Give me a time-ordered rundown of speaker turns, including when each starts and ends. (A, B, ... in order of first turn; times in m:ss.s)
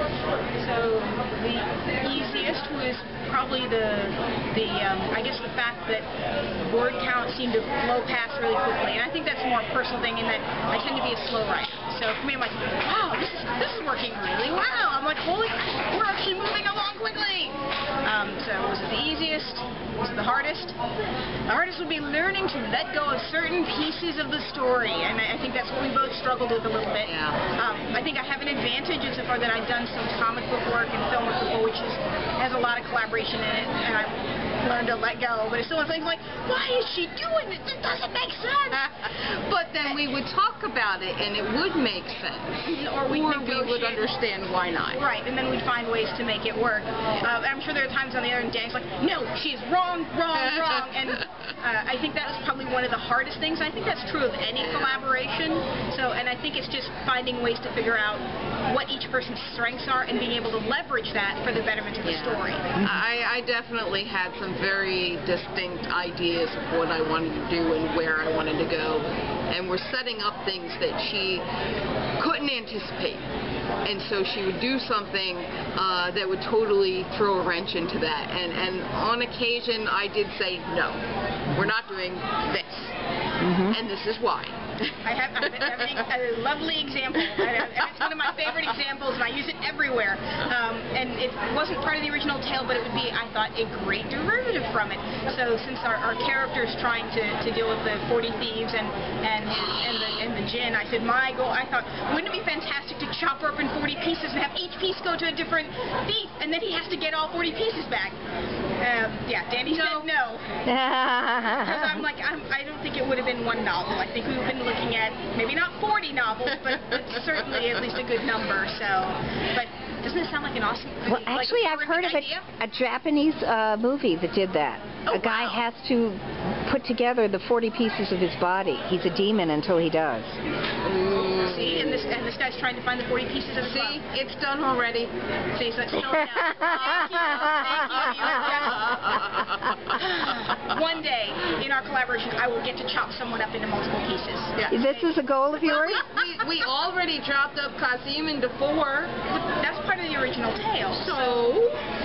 0:00.6-0:20.8 A
0:21.5-0:38.9 A
0:27.0-0:27.4 B
0:39.1-0:45.0 B
0:42.6-0:44.1 A
0:44.9-1:02.7 A
0:54.6-0:55.0 B
1:02.0-1:11.4 B
1:12.2-1:13.2 B
1:13.8-1:22.9 B
1:23.4-1:23.8 C
1:23.7-1:26.0 B
1:25.0-1:48.2 A
1:27.2-1:27.6 B
1:48.8-1:50.4 A
1:49.6-1:50.1 B
1:50.7-1:52.0 C
1:51.6-2:02.4 A
2:01.0-2:10.4 C
2:05.0-2:05.6 B
2:10.8-2:12.1 B
2:11.4-2:14.0 A
2:13.6-2:15.1 B
2:15.5-2:19.2 A
2:16.1-2:17.7 C
2:17.8-2:19.6 B
2:19.9-2:25.0 A
2:24.7-2:26.1 C
2:25.6-2:29.1 B
2:29.4-2:31.2 A
2:30.9-2:31.8 B